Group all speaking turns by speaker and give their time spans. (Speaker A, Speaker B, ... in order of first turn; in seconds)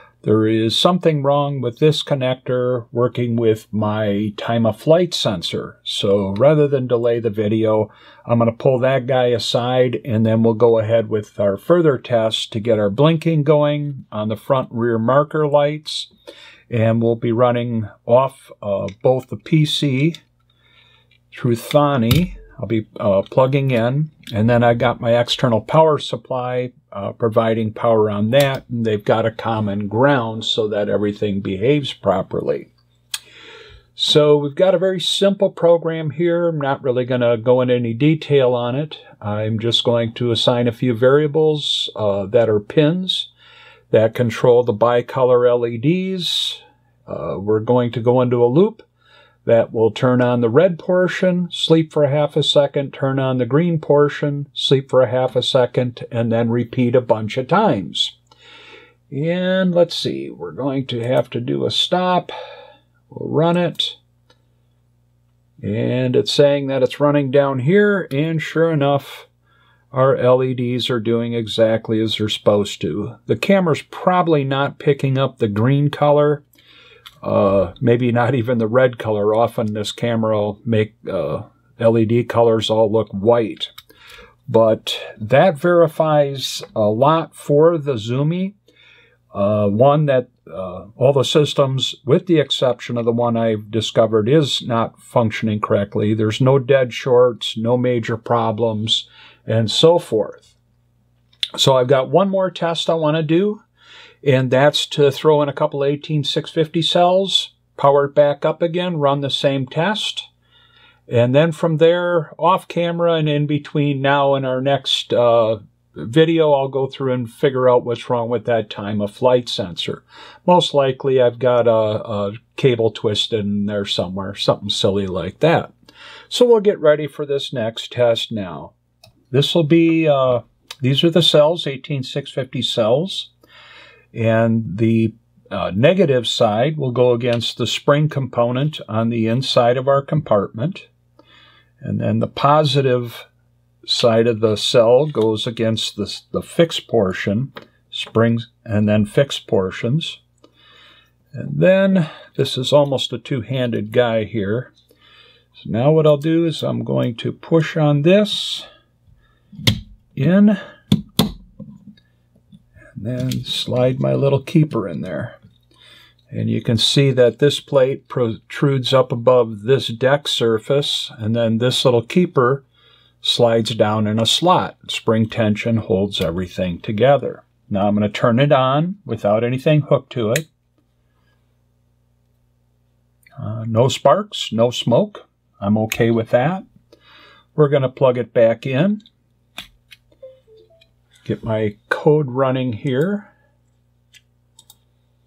Speaker A: 0.2-16.1, 16.7-20.2, 21.3-32.7, 34.0-43.3, 43.9-48.9, 49.5-58.1, 59.1-62.3, 63.1-64.0, 65.6-69.3, 69.9-76.4, 77.2-83.7, 84.5-88.5, 89.3-100.5, 101.6-103.6, 104.2-110.3, 111.1-125.7, 126.3-128.7, 129.3-133.3, 134.1-140.9, 141.8-143.3, 143.8-150.2, 151.3-154.7, 155.6-158.7, 160.2-160.6, 163.0-165.4, 166.3-172.7, 173.2-180.5, 183.4-186.7, 187.6-189.0, 191.2-193.3